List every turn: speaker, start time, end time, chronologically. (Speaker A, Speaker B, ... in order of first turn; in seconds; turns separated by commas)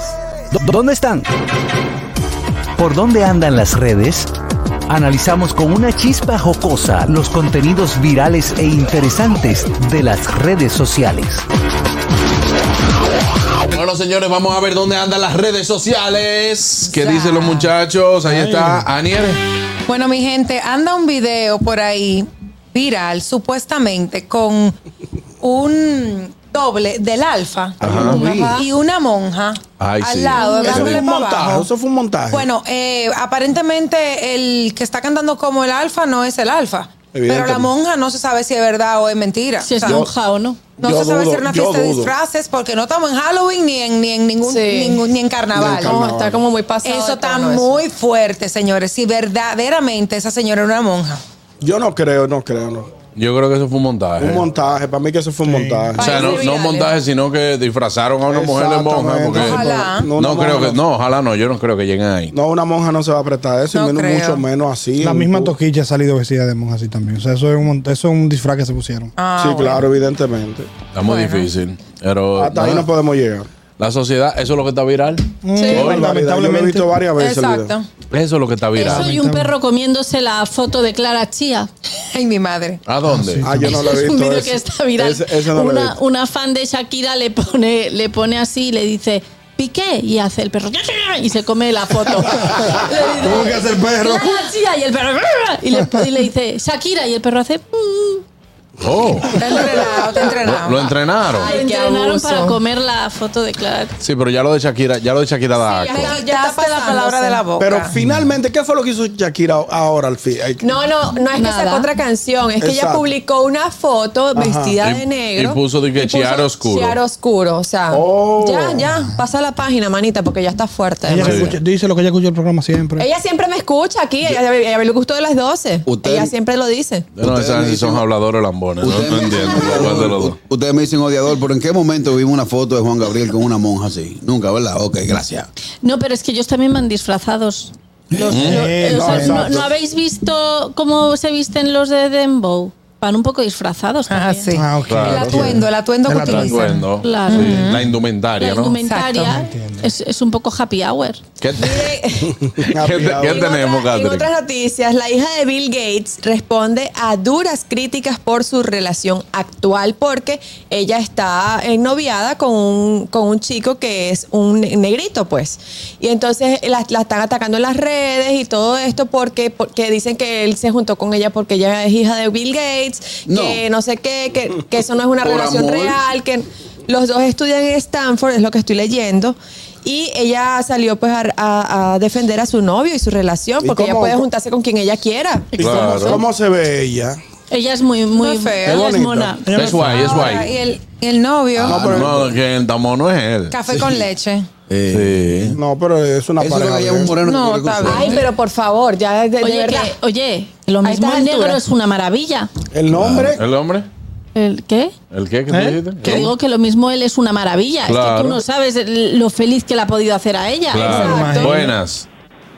Speaker A: 0.5-1.3, Speaker A: 2.8-4.3, Speaker A: 4.9-11.4, Speaker B: 13.7-19.4, Speaker C: 16.9-17.7, Speaker D: 18.3-18.8, Speaker C: 19.9-24.7, Speaker C: 25.4-31.7, Speaker B: 27.8-28.2, Speaker E: 27.8-28.6, Speaker B: 29.8-31.1, Speaker E: 30.6-32.5, Speaker C: 32.3-40.1, Speaker E: 37.1-37.7, Speaker F: 39.6-40.7, Speaker E: 39.8-40.1, Speaker C: 40.8-46.1, Speaker E: 40.8-42.1, Speaker G: 44.4-45.0, Speaker E: 45.5-46.4, Speaker G: 45.6-47.8, Speaker C: 46.8-51.2, Speaker E: 51.6-52.9, Speaker B: 53.1-54.5, Speaker E: 54.2-56.5, Speaker D: 55.4-56.0, Speaker G: 56.0-56.9, Speaker B: 56.0-62.3, Speaker E: 58.3-60.8, Speaker C: 59.4-60.1, Speaker E: 62.3-65.5, Speaker C: 63.7-64.4, Speaker D: 65.0-69.1, Speaker C: 69.2-69.8, Speaker E: 69.3-70.9, Speaker B: 70.9-72.9, Speaker C: 71.0-71.5, Speaker E: 72.3-73.5, Speaker B: 73.8-76.1, Speaker D: 75.4-77.0, Speaker C: 75.6-75.8, Speaker E: 75.8-77.8, Speaker C: 77.1-77.9, Speaker B: 78.1-79.1, Speaker F: 78.7-81.7, Speaker D: 78.8-79.5, Speaker C: 82.1-82.8, Speaker B: 82.8-83.5, Speaker D: 83.0-83.8, Speaker E: 83.4-86.0, Speaker F: 83.6-98.2, Speaker D: 92.2-94.5, Speaker B: 98.8-101.6, Speaker C: 99.3-101.0, Speaker F: 99.5-100.2, Speaker G: 101.3-102.5, Speaker F: 101.4-103.9, Speaker B: 104.0-106.2, Speaker G: 105.6-107.9, Speaker C: 105.8-107.9, Speaker E: 107.6-110.7, Speaker D: 108.0-108.3, Speaker G: 110.6-121.6, Speaker F: 111.3-111.9, Speaker E: 112.6-113.1, Speaker E: 114.3-114.8, Speaker B: 114.8-117.0, Speaker E: 117.9-118.8, Speaker D: 118.9-119.2, Speaker D: 121.0-123.1, Speaker B: 121.2-121.5, Speaker G: 123.0-127.0, Speaker H: 125.8-126.3, Speaker B: 127.1-130.3, Speaker H: 127.2-128.0, Speaker H: 128.8-135.5, Speaker F: 135.8-137.7, Speaker H: 138.1-138.6, Speaker B: 138.3-138.7, Speaker D: 138.3-139.5, Speaker F: 138.5-144.5, Speaker E: 138.7-139.7, Speaker C: 144.1-147.8, Speaker D: 144.5-146.5, Speaker B: 144.8-145.5, Speaker E: 145.1-145.6, Speaker B: 146.2-148.8, Speaker F: 147.0-147.6, Speaker F: 148.4-151.2, Speaker C: 148.8-149.3, Speaker D: 149.3-149.9, Speaker B: 151.4-151.9, Speaker G: 151.6-152.7, Speaker E: 152.6-153.5, Speaker B: 152.7-154.3, Speaker G: 153.2-185.6, Speaker H: 173.3-173.6, Speaker H: 175.2-176.0, Speaker E: 183.6-184.2, Speaker E: 185.6-187.2, Speaker B: 185.6-186.2, Speaker F: 185.6-186.2, Speaker F: 187.5-190.3, Speaker C: 188.1-188.9, Speaker E: 188.6-189.4, Speaker D: 189.4-190.2, Speaker B: 189.5-190.5, Speaker C: 189.8-192.1, Speaker H: 191.6-192.2, Speaker E: 191.6-192.2, Speaker B: 191.8-193.8, Speaker C: 193.5-194.5, Speaker H: 194.7-195.6, Speaker B: 194.9-195.6, Speaker E: 195.5-197.3, Speaker H: 196.4-198.3, Speaker C: 197.2-198.3, Speaker G: 197.8-199.9, Speaker F: 199.4-202.5, Speaker G: 200.8-201.6, Speaker E: 202.7-203.4, Speaker B: 202.9-203.9, Speaker F: 204.3-204.9, Speaker B: 205.1-206.3, Speaker D: 205.5-206.3, Speaker F: 206.0-211.3, Speaker B: 207.8-208.4, Speaker B: 210.7-212.1, Speaker G: 210.8-211.7, Speaker D: 211.0-211.7